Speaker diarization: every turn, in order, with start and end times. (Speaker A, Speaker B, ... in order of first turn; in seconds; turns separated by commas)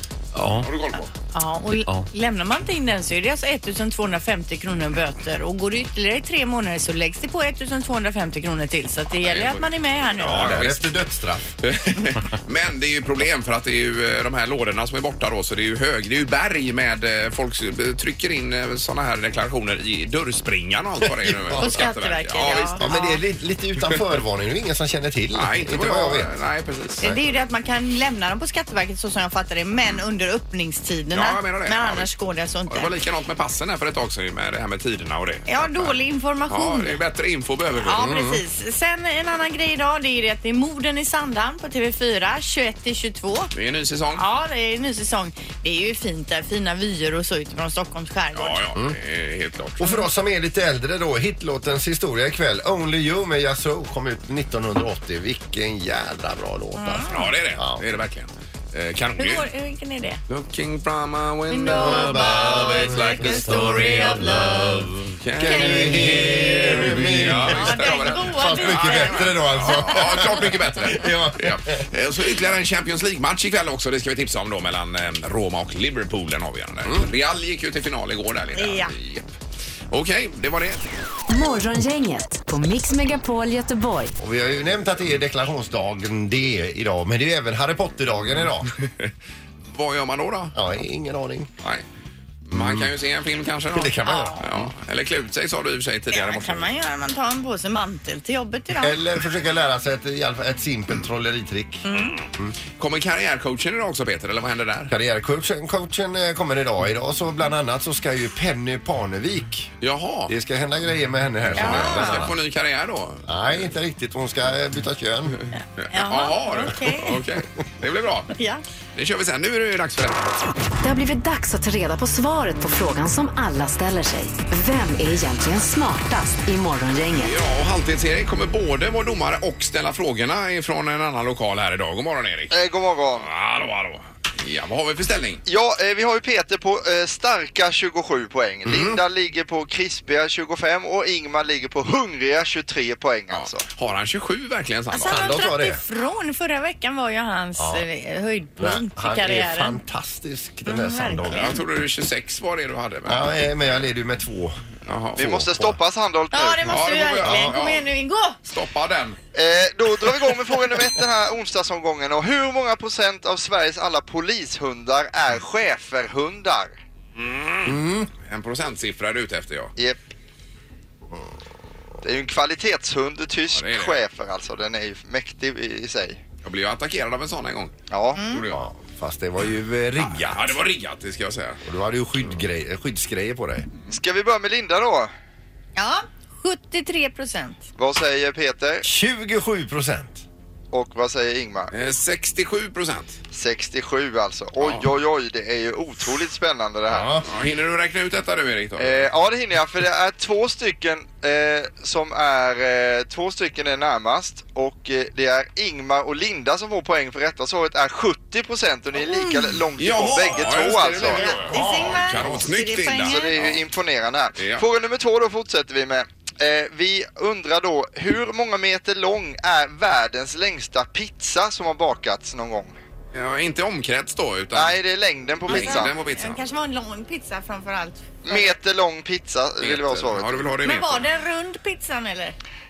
Speaker A: 0.4-0.6, Speaker B: 0.6-1.1, Speaker C: 1.3-10.6, Speaker B: 9.2-11.0, Speaker A: 10.2-11.5, Speaker B: 11.6-22.9, Speaker A: 21.1-21.8, Speaker C: 21.6-23.2, Speaker A: 22.8-26.3, Speaker B: 25.3-27.0, Speaker C: 27.0-32.9, Speaker B: 31.1-32.1, Speaker B: 32.7-35.9, Speaker C: 35.5-37.0, Speaker B: 36.5-38.1, Speaker C: 37.8-43.5, Speaker A: 37.9-38.4, Speaker B: 43.5-44.2, Speaker C: 44.2-48.6, Speaker B: 48.3-49.8, Speaker A: 49.8-57.8, Speaker C: 56.8-57.2, Speaker B: 57.1-59.5, Speaker C: 59.2-60.2, Speaker B: 60.3-64.2, Speaker C: 61.5-64.9, Speaker A: 61.7-71.8, Speaker B: 65.1-79.3, Speaker C: 65.4-66.7, Speaker C: 67.4-70.2, Speaker C: 78.5-78.9, Speaker B: 79.9-80.8, Speaker D: 81.3-84.1, Speaker A: 84.2-88.7, Speaker B: 88.7-89.1, Speaker B: 89.7-90.6, Speaker A: 90.5-91.5, Speaker B: 92.5-96.7, Speaker A: 92.5-92.9, Speaker A: 93.7-94.7, Speaker C: 94.0-94.4, Speaker C: 96.1-99.0, Speaker A: 98.8-101.8, Speaker C: 101.8-102.2, Speaker B: 101.9-102.3, Speaker B: 102.8-104.9, Speaker A: 104.9-109.7, Speaker B: 109.8-110.3, Speaker A: 110.3-112.4, Speaker B: 111.5-113.2, Speaker C: 111.6-112.3, Speaker A: 113.2-115.4, Speaker C: 115.5-117.2, Speaker B: 115.8-118.3, Speaker C: 118.3-118.6, Speaker B: 118.9-120.4, Speaker D: 120.8-127.3, Speaker B: 127.1-132.5, Speaker E: 132.5-133.3, Speaker B: 133.2-135.4, Speaker E: 135.5-143.6, Speaker A: 138.7-139.0, Speaker B: 143.3-145.3, Speaker C: 144.9-149.8, Speaker A: 145.0-145.8, Speaker A: 147.6-147.8, Speaker A: 148.6-151.5, Speaker C: 150.7-151.5, Speaker B: 151.3-153.5, Speaker A: 153.1-154.6, Speaker B: 154.8-155.8, Speaker E: 155.2-156.9, Speaker C: 156.3-158.4, Speaker B: 156.7-157.9, Speaker A: 157.2-157.6, Speaker B: 158.5-159.2, Speaker E: 159.3-166.7, Speaker B: 167.2-169.7, Speaker A: 167.6-168.1, Speaker E: 172.0-176.2, Speaker B: 173.5-174.0, Speaker B: 176.4-177.7, Speaker E: 177.9-178.2, Speaker C: 178.1-178.4, Speaker B: 178.3-178.6, Speaker A: 178.5-180.6, Speaker B: 180.0-181.6, Speaker A: 181.6-183.7, Speaker E: 183.9-185.1, Speaker C: 185.8-187.6, Speaker E: 187.8-188.8, Speaker A: 188.8-190.2, Speaker E: 190.7-191.7, Speaker B: 191.7-193.2, Speaker E: 193.3-197.2, Speaker B: 194.6-194.9, Speaker A: 196.9-197.2, Speaker B: 197.2-199.1, Speaker E: 198.8-211.2, Speaker C: 209.0-209.4, Speaker B: 209.8-213.6, Speaker C: 211.1-213.3, Speaker A: 211.5-212.3, Speaker E: 213.0-222.7, Speaker B: 214.3-214.7, Speaker B: 223.1-224.8, Speaker E: 224.5-225.9, Speaker B: 225.4-226.4, Speaker C: 225.5-228.6, Speaker E: 228.2-230.5, Speaker B: 229.6-231.0, Speaker C: 230.6-232.3